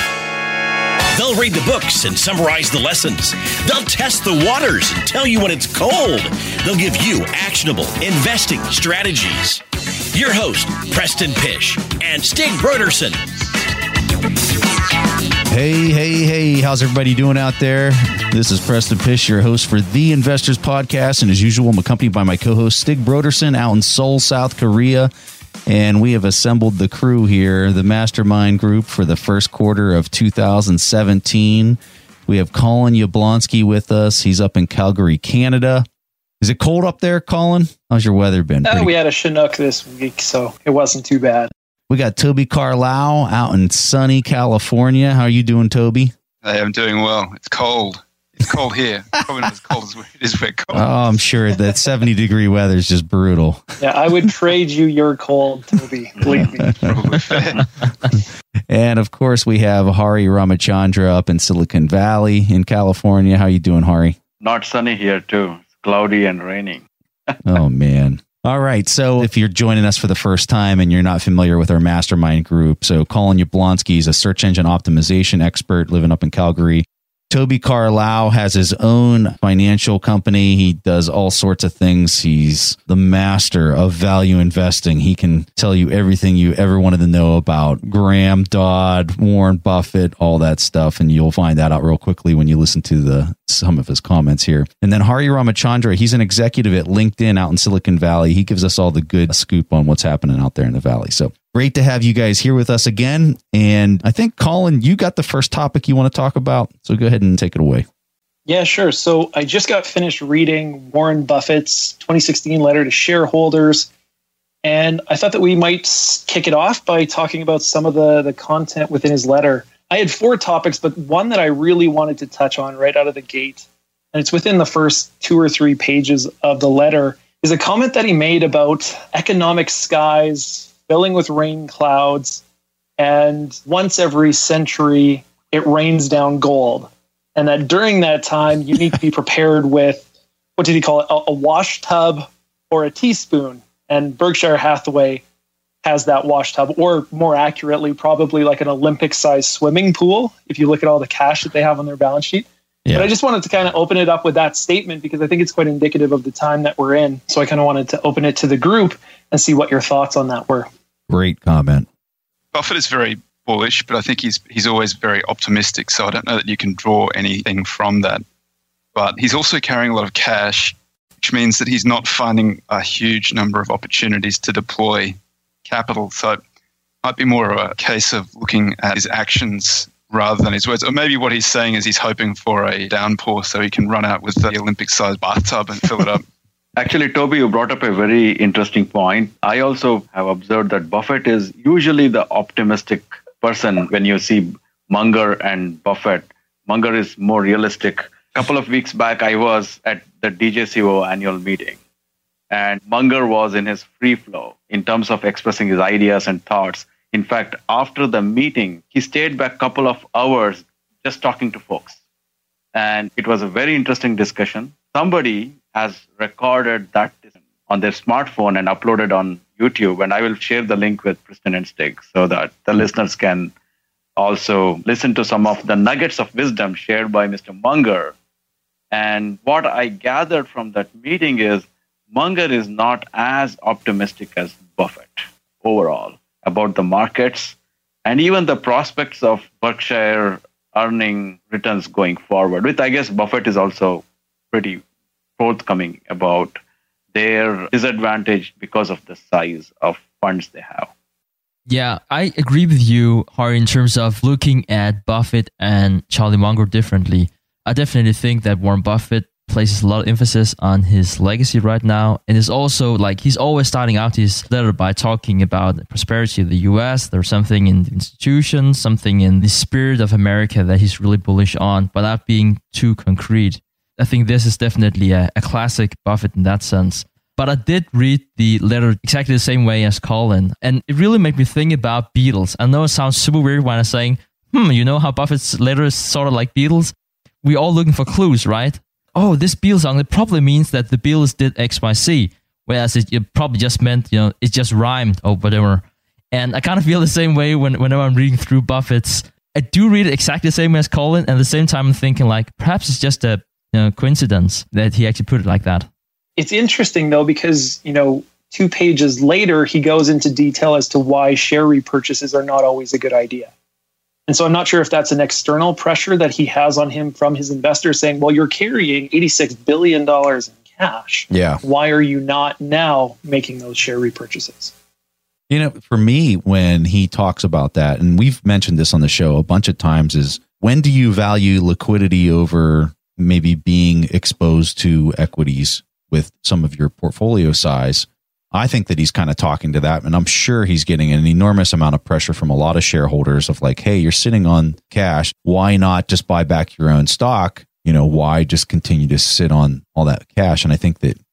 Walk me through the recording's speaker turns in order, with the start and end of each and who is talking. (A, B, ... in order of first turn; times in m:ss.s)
0:01.1-0:13.2 A
0:15.5-0:25.1 B
0:25.6-0:35.8 B
0:36.4-0:38.9 B
0:38.6-0:41.5 C
0:41.9-0:46.1 B
0:46.4-0:51.2 D
0:50.7-0:53.6 B
0:53.8-0:56.9 C
0:56.3-0:57.9 D
0:58.7-1:04.2 B
1:04.4-1:07.4 E
1:07.4-1:47.8 B
1:48.4-1:53.9 C
1:54.6-2:12.4 C
2:13.0-2:20.0 C
2:20.6-2:25.2 C
2:25.8-2:40.7 C
2:32.8-2:33.1 B
2:41.1-2:41.9 B
2:42.5-2:48.2 D
2:48.9-2:56.4 D
2:57.0-3:06.2 D
3:06.8-3:21.8 E
3:22.5-3:32.0 E
3:32.7-3:43.5 E
3:44.2-3:48.1 E
3:48.9-4:04.8 E
4:05.4-4:06.6 E
4:07.1-4:10.9 E
4:11.7-5:05.9 F
5:06.4-5:13.5 C
5:14.3-5:24.7 C
5:21.3-5:21.6 B
5:25.5-5:51.2 B